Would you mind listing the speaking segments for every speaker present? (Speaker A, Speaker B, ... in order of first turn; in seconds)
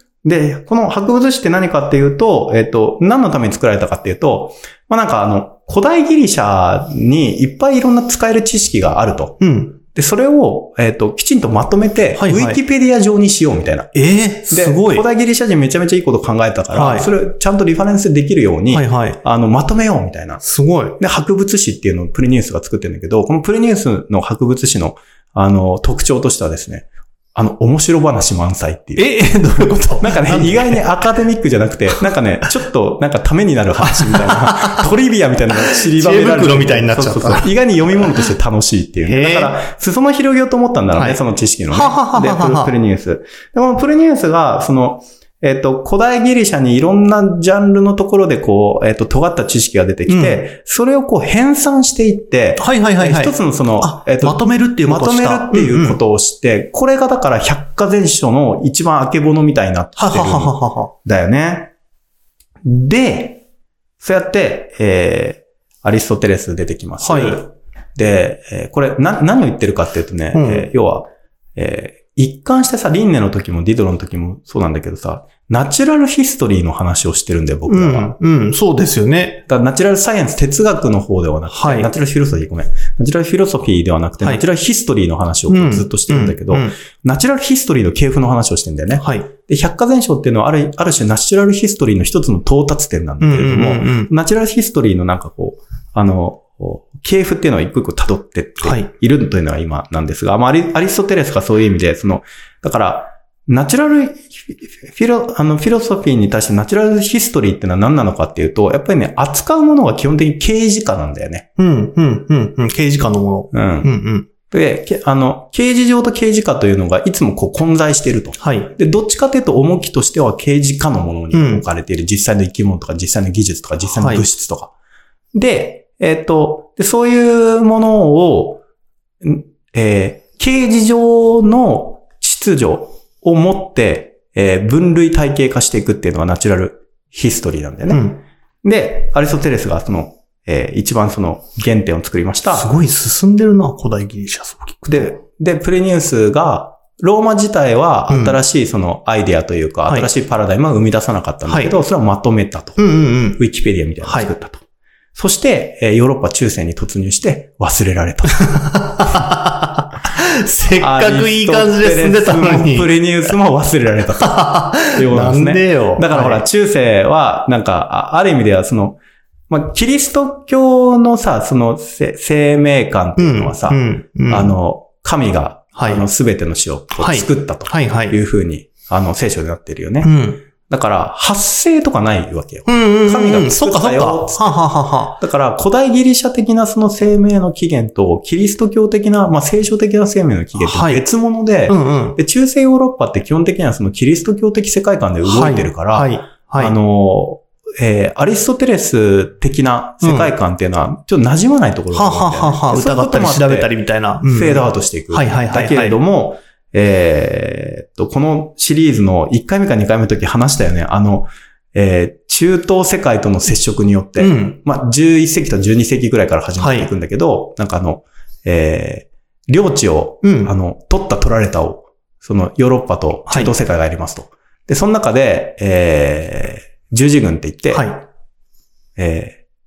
Speaker A: 0.2-13.9, 14.5-20.4, 21.0-61.7, 62.6-63.4, 64.0-78.1, 79.5-111.5, 113.5-113.9, 114.5-124.7, 125.3-128.6, 129.2-138.1, 138.6-142.7, 144.9-154.6, 155.1-158.6, 160.8-169.0, 169.5-180.1, 180.7-184.6, 185.2-203.7, 204.2-227.9, 229.0-229.4
Speaker B: 9.4-9.8, 12.1-12.6, 13.9-15.0, 16.7-17.1, 18.7-19.2, 20.4-21.0, 29.0-30.9, 33.8-34.9, 35.5-37.5, 39.0-39.6, 40.9-41.2, 41.7-42.7, 50.1-50.5, 52.6-56.0, 60.0-60.9, 67.0-67.4, 70.3-70.7, 77.7-79.4, 81.5-81.9, 85.5-86.7, 89.0-89.3, 93.2-94.1, 98.6-98.9, 111.6-114.3, 118.4-118.7, 121.3-121.6, 123.9-124.2, 137.9-138.2, 142.5-145.2, 148.1-148.4, 151.5-151.7, 152.8-153.4, 154.0-154.3, 158.4-163.3, 164.2-166.4, 173.2-174.5, 175.7-176.0, 177.0-178.2, 180.0-180.4, 182.7-185.2, 190.6-191.0, 191.7-192.2, 195.2-196.7, 200.0-200.3, 201.9-206.0, 214.2-214.6, 216.6-216.9, 220.2-220.5, 227.7-228.0